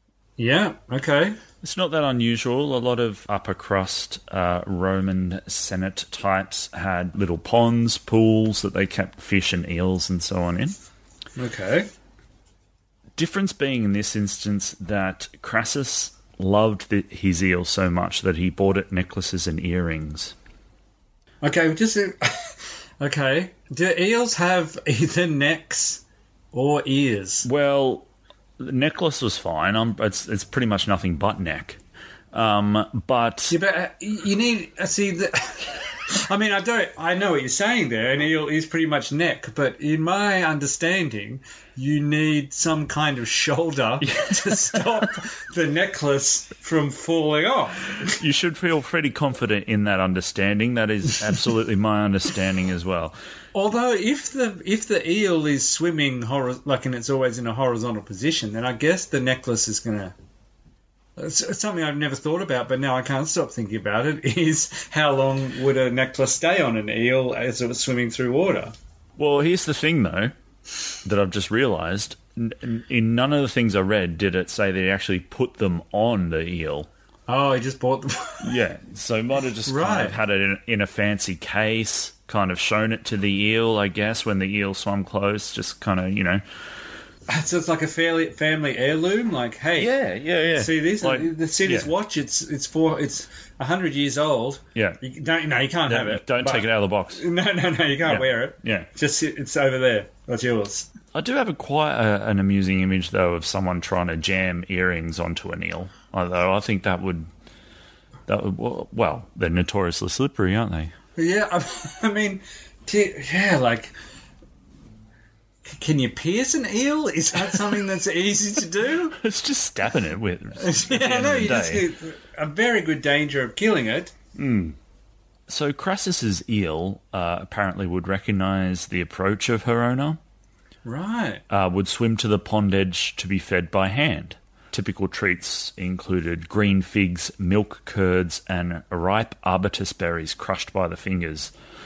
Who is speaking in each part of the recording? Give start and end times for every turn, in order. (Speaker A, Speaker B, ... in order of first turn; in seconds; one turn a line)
Speaker A: 0.4-1.4
Speaker B: 1.6-10.7
Speaker A: 11.3-11.9
Speaker B: 13.2-20.3
Speaker A: 21.4-26.0
Speaker A: 26.5-27.4
Speaker B: 27.4-28.1
Speaker B: 28.6-31.8
Speaker B: 32.3-33.6
Speaker A: 33.5-48.1
Speaker B: 44.0-44.9
Speaker B: 48.1-53.1
Speaker A: 53.5-60.1
Speaker A: 61.2-68.7
Speaker B: 69.2-70.3
Speaker B: 71.0-76.9
Speaker A: 77.3-78.6
Speaker B: 78.4-86.4
Speaker A: 79.6-80.2
Speaker A: 87.3-89.9
Speaker B: 89.8-91.9
Speaker A: 90.5-100.9
Speaker B: 94.7-95.0
Speaker B: 95.9-97.2
Speaker B: 98.0-98.9
Speaker B: 101.1-107.3
Speaker B: 108.3-110.9
Speaker A: 111.2-113.9
Speaker A: 115.7-119.2
Speaker B: 119.2-121.9
Speaker A: 120.6-124.1
Speaker B: 124.3-124.8
Speaker B: 125.5-130.2
Speaker A: 130.8-131.4
Speaker B: 131.5-141.5